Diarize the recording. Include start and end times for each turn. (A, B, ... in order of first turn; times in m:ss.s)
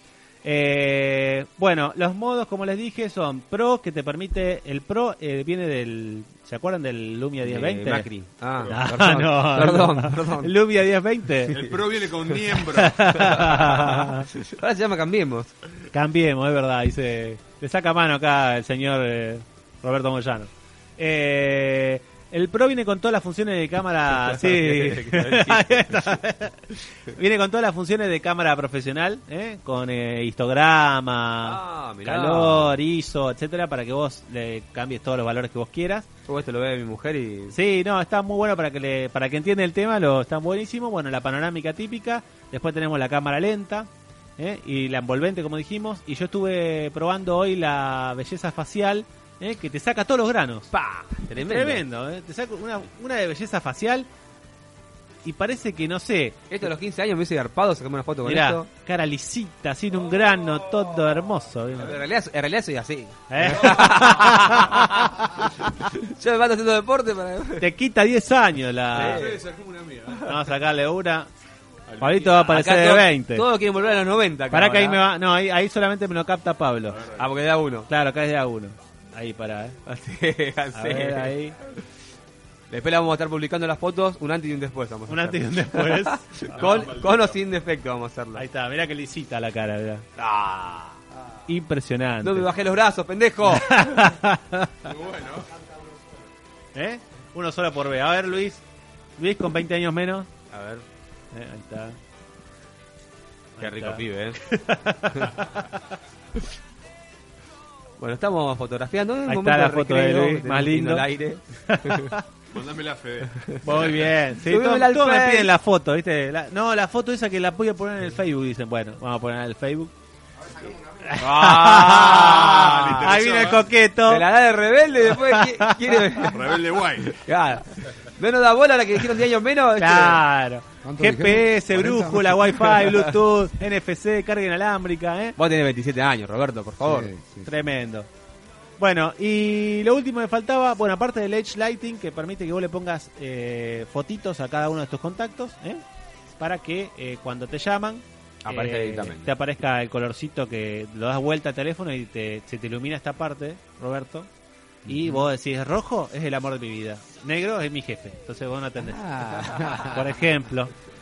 0:00.4-0:08.1 A
0:07.4-0:10.5 B
0:08.7-0:11.6 A
0:11.5-0:13.7 C
0:12.7-0:14.3 A
0:13.3-0:15.5 B
0:15.9-0:36.1 A
0:24.1-0:26.2 B
0:31.4-0:32.8 B
0:36.2-0:37.6 B
0:37.5-0:50.7 A
0:50.7-0:51.8 B
0:51.4-0:54.1 A
0:55.2-0:56.6 A
0:56.5-0:58.7 B
0:58.2-1:02.0 A
1:01.8-1:07.7 B
1:03.3-1:05.4 A
1:07.6-1:09.2 A
1:08.9-1:09.4 B
1:08.9-1:10.3 C
1:10.2-1:11.3 A
1:11.9-1:12.3 C
1:12.0-1:13.4 A
1:12.3-1:15.0 B
1:14.5-1:17.0 A
1:16.9-1:17.3 C
1:17.2-1:17.9 B
1:17.9-1:19.8 A
1:19.8-1:21.3 B
1:20.7-1:21.5 A
1:22.7-1:28.4 B
1:25.1-1:26.9 A
1:26.5-1:27.4 C
1:28.4-1:30.0 A
1:30.2-1:31.0 B
1:31.5-1:32.5 A
1:32.2-1:34.2 B
1:33.5-1:34.7 A
1:34.8-1:35.5 C
1:36.7-1:38.6 A
1:39.2-1:40.3 A
1:40.5-1:40.8 B
1:41.3-1:42.0 A
1:43.6-1:44.4 B
1:43.6-1:45.7 A
1:45.1-1:45.4 B
1:48.0-1:52.1 B
1:49.3-1:51.0 A
1:51.7-1:52.2 A
1:52.5-1:54.0 C
1:53.6-1:59.9 A
1:54.4-1:55.5 B
2:01.0-2:04.2 A
2:01.2-2:03.1 B
2:01.4-2:03.7 C
2:04.1-2:10.2 B
2:05.2-2:06.2 A
2:06.2-2:07.2 C
2:09.8-2:15.4 A
2:10.8-2:12.6 D
2:15.4-2:17.1 B
2:16.8-2:17.5 D
2:17.4-2:18.1 A
2:18.8-2:25.8 A
2:26.4-2:34.3 A
2:28.4-2:29.3 B
2:34.8-2:40.7 A
2:34.9-2:35.2 B
2:38.9-2:40.0 D